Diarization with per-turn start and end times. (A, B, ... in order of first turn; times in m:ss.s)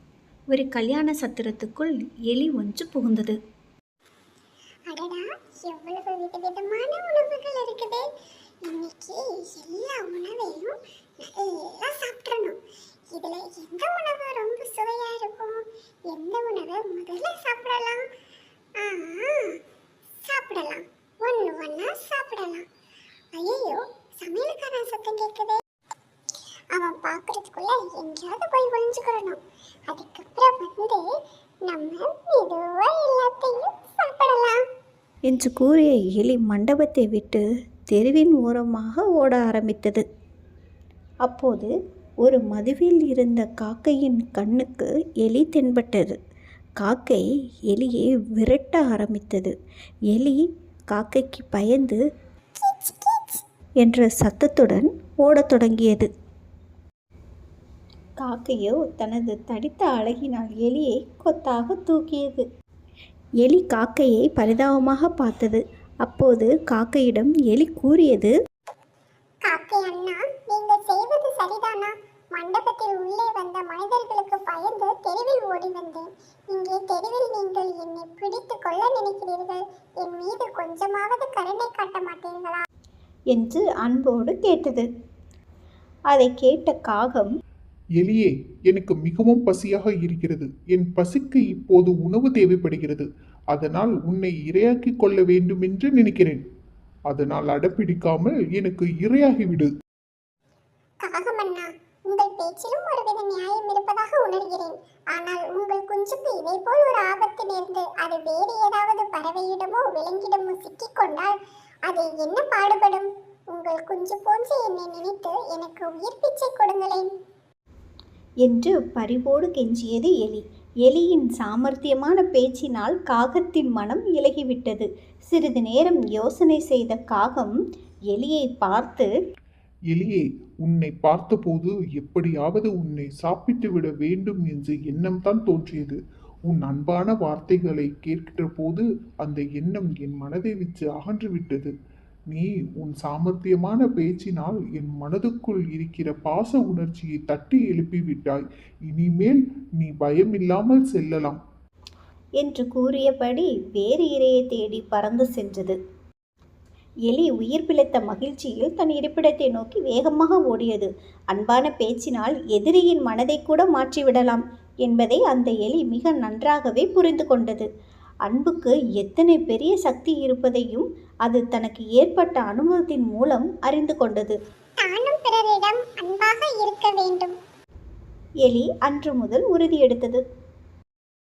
0:00.5-0:03.4 A
0:04.9-0:08.0 B
0:08.6-0:18.1 B
0:18.8-0:19.6 B
0:20.2-0:22.6 B
0:23.3-0:25.6 B
0:26.7-0:31.0 B
0:31.7-0:34.6 B
0:35.3-0:40.0 A
0:41.2-0:41.7 A
0:42.2-0:46.2 A
0:46.8-0:49.5 A
0:50.1-0:52.0 A
0:52.6-0:53.4 B
0:53.8-0:56.1 A
0:58.2-1:02.4 A
1:03.4-1:08.3 A
1:09.4-1:22.6 B
1:23.3-1:24.9 A
1:26.1-1:27.3 A
1:28.0-1:36.4 C
1:37.1-1:39.7 C
1:41.0-1:51.3 B
1:51.8-1:57.1 B
1:58.4-2:07.6 A
2:08.1-2:09.1 A
2:09.9-2:21.7 C
2:22.3-2:31.4 C
2:32.4-2:35.8 A
2:37.1-2:47.7 A
2:48.3-2:54.4 A
2:54.8-2:57.4 B
2:58.4-3:00.2 A